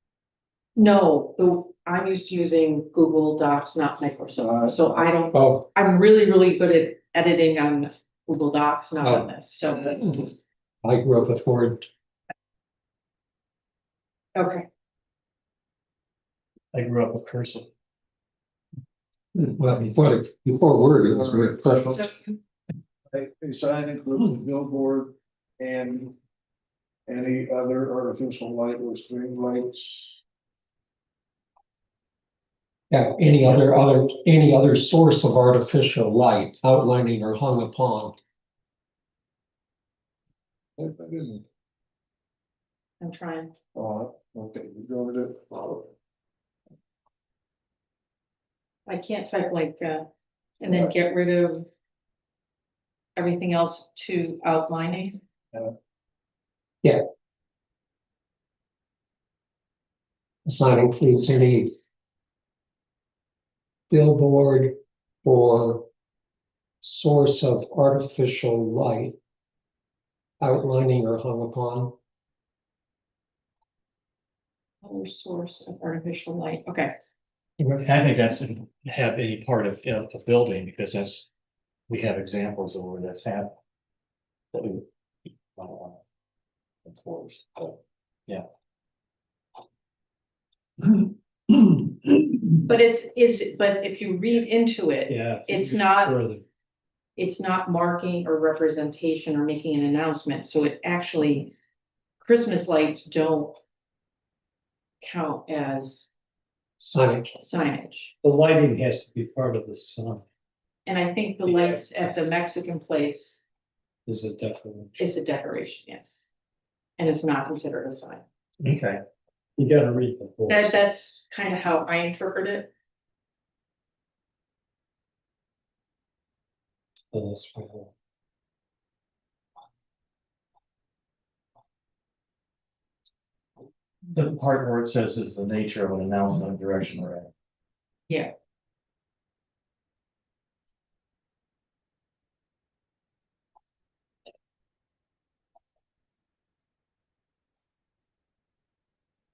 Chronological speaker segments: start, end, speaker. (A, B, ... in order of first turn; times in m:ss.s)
0:00.8-0:10.0 A
0:04.4-0:04.9 B
0:05.3-0:05.6 C
0:09.0-0:09.3 C
0:09.9-0:10.3 C
0:10.8-0:11.9 C
0:14.3-0:14.6 A
0:16.7-0:17.7 D
0:19.3-0:22.0 C
0:21.1-0:22.0 B
0:21.9-0:22.3 A
0:23.1-0:26.2 B
0:27.1-0:30.2 B
0:32.9-0:38.2 C
0:40.8-0:41.4 B
0:43.0-0:43.5 A
0:43.7-0:45.9 B
0:48.9-0:50.1 A
0:50.6-0:51.7 A
0:53.2-0:55.2 A
1:00.4-1:01.7 C
1:03.9-1:05.8 C
1:06.8-1:09.2 C
1:10.4-1:11.9 C
1:14.8-1:16.9 A
1:17.8-1:21.3 D
1:21.9-1:23.5 D
1:24.5-1:24.8 D
1:25.6-1:26.0 D
1:26.8-1:28.4 D
1:32.6-1:36.2 A
1:35.1-1:36.4 E
1:37.2-1:41.5 A
1:42.2-1:43.6 A
1:45.0-1:46.1 A
1:46.8-1:47.4 C
1:47.4-1:48.1 A
1:48.2-1:50.2 E
1:50.8-1:53.4 A
1:51.4-1:51.8 E
1:54.1-1:55.0 E
1:55.0-1:56.3 A
1:57.0-1:58.2 A
1:58.6-1:59.0 D
1:59.6-2:00.8 E
2:00.5-2:02.7 A
2:07.1-2:07.9 E
2:14.1-2:17.3 D
2:18.1-2:18.3 A